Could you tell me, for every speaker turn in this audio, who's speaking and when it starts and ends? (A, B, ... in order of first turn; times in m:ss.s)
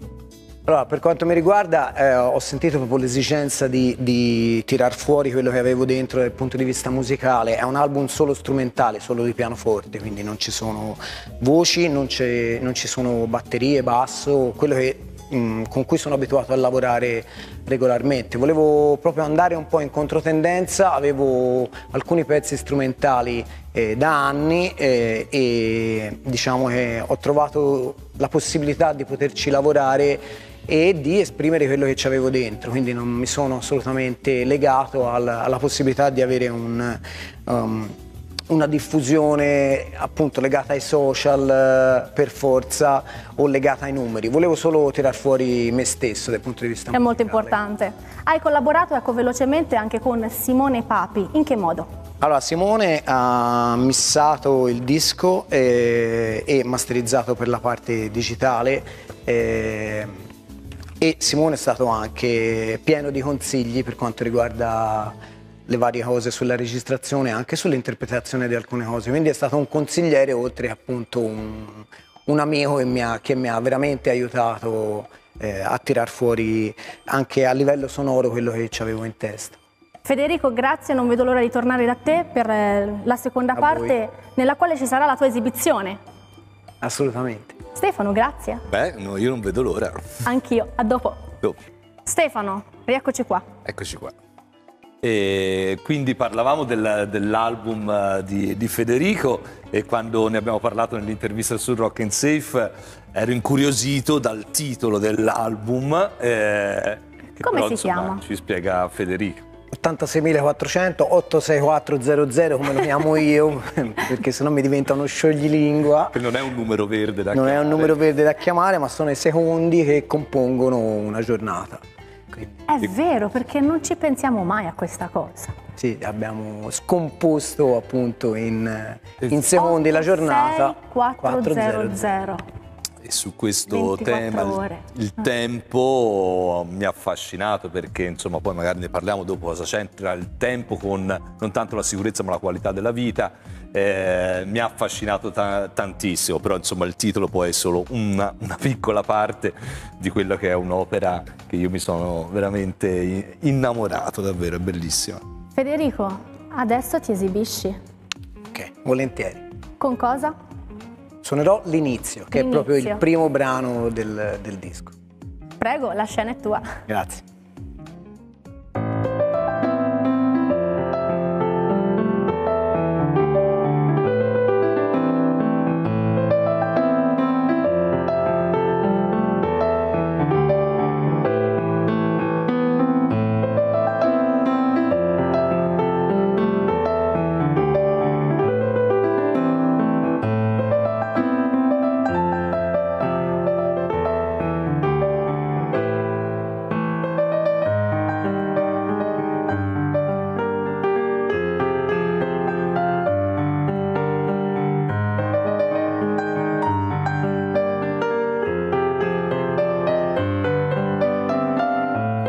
0:00.7-0:38.0 A
0:38.5-0:47.6 A
0:46.9-0:51.9 B
0:52.2-1:00.1 A
1:01.0-1:05.2 A
1:05.7-1:19.6 A
1:20.0-1:26.0 B
1:23.6-1:24.0 A
1:26.8-1:27.6 A
1:27.8-1:28.6 B
1:28.7-1:30.0 C
1:30.2-1:31.3 B
1:32.1-1:33.5 B
1:33.6-1:34.1 C
1:35.0-1:49.4 C
1:47.4-1:48.2 B
1:49.7-1:56.2 A
1:56.1-1:58.0 C
1:57.3-2:02.5 A
2:02.7-2:05.5 B
2:05.8-2:12.1 A
2:09.5-2:12.4 B
2:13.0-2:35.2 C
2:13.7-2:14.8 B
2:35.6-2:37.8 B
2:38.5-2:39.4 A
2:39.8-2:40.4 B
2:41.2-2:44.9 A
2:42.3-2:43.0 B
2:45.6-2:46.7 B
2:46.9-2:47.2 A